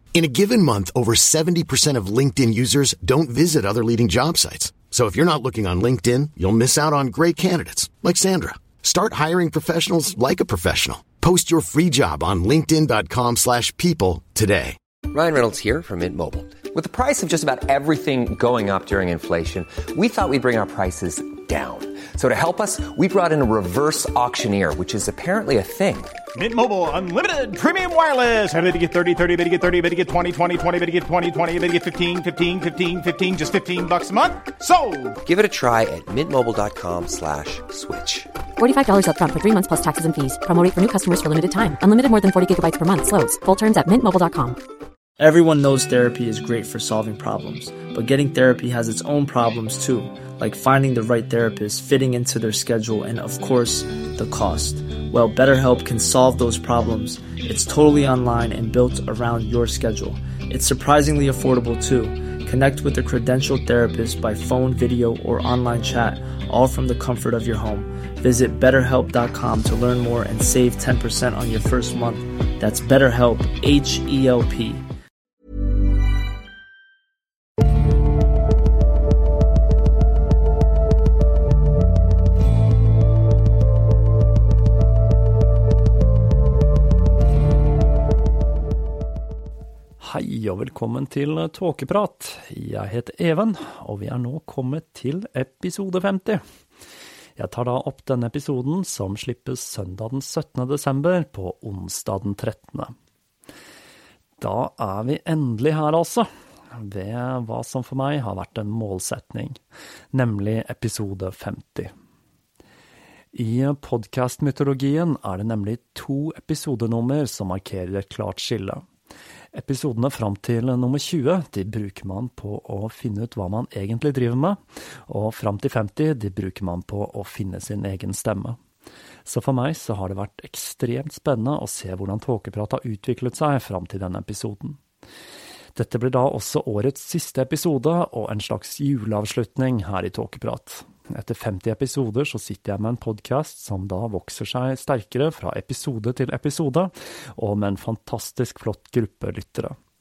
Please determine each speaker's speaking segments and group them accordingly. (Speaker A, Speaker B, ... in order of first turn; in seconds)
Speaker A: 0.1-14.8
Speaker B: 15.1-26.2, 35.2-38.3
Speaker C: 26.3-35.2
Speaker D: 38.6-44.6
Speaker E: 45.2-74.8
Speaker F: 90.0-96.4, 97.4-102.9, 104.4-109.6, 110.1-111.9, 113.3-118.8, 119.5-128.6, 129.2-134.8, 135.7-149.8